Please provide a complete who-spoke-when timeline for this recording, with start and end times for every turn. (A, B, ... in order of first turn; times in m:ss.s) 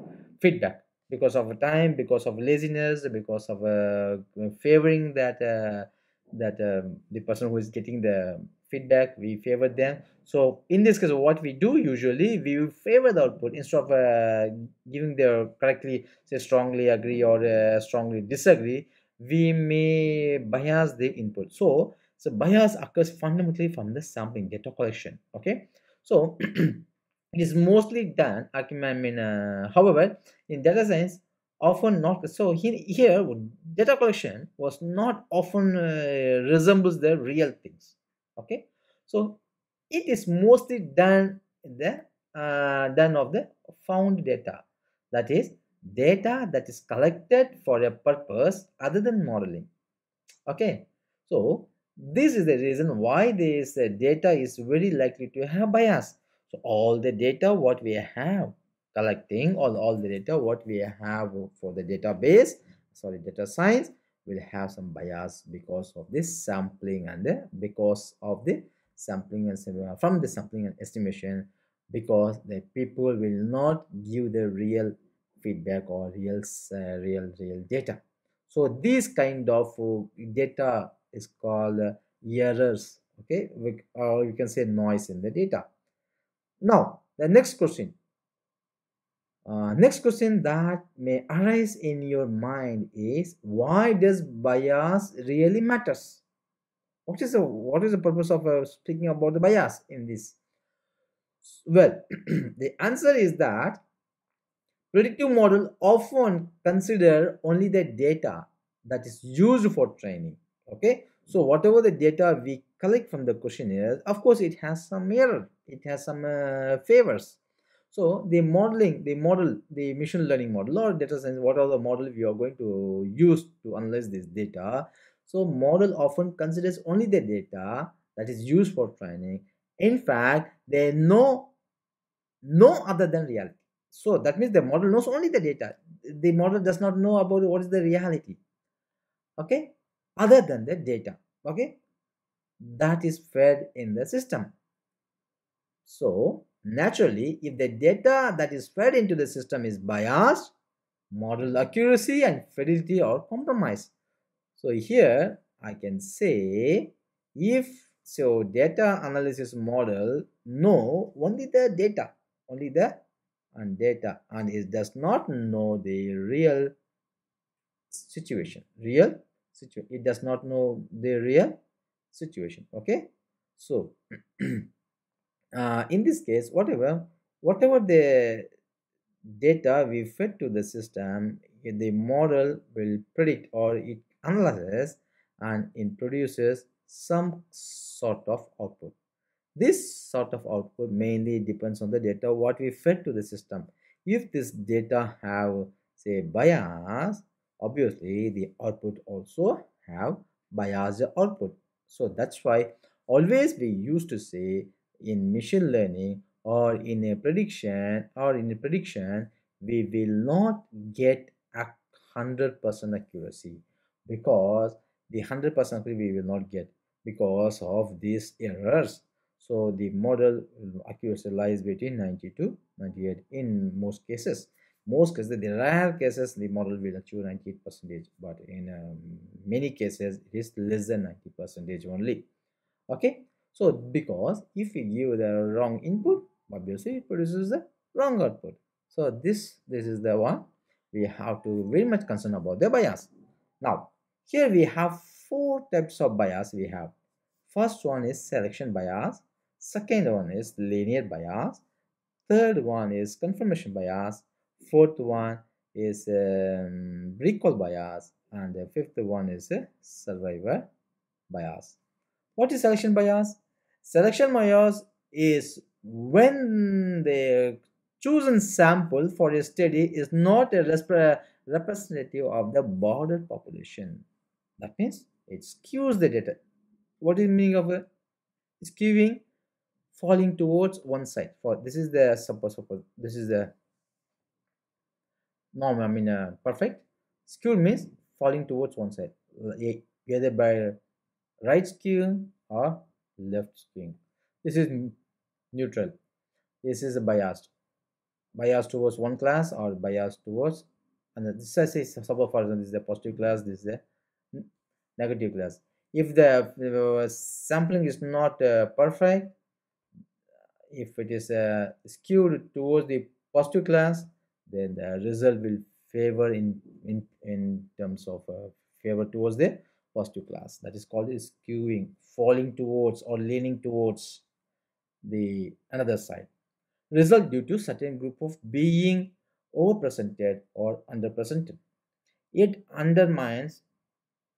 0:00.4-0:49.7 A
0:50.5-1:25.7 A
1:26.6-1:28.0 A
1:29.4-1:36.2 A
1:37.1-1:40.4 A
1:41.4-1:43.8 A
1:44.9-1:57.4 A
1:57.9-2:11.5 A
2:12.4-2:18.4 A
2:19.4-2:21.8 A
2:22.6-2:24.5 A
2:25.8-2:30.5 A
2:31.1-2:33.9 A
2:34.6-2:43.0 A
2:43.5-2:46.7 A
2:47.9-2:51.6 A
2:52.1-2:54.7 A
2:55.6-2:58.5 A
2:59.2-3:09.0 A
3:09.6-3:52.3 A
3:52.9-4:06.9 A
4:07.5-4:11.6 A
4:12.3-4:20.7 A
4:21.3-4:21.8 A
4:22.4-4:34.1 A
4:34.6-4:36.4 A
4:37.0-4:37.9 A
4:38.6-4:39.2 A
4:39.9-4:43.5 A
4:45.5-4:50.8 A
4:51.4-4:55.0 A
4:55.5-4:55.9 A
4:56.6-4:57.5 A
4:58.4-5:03.8 A
5:05.0-5:09.3 A
5:10.7-5:24.2 A
5:25.0-5:26.3 A
5:26.9-5:31.6 A
5:32.3-5:33.6 A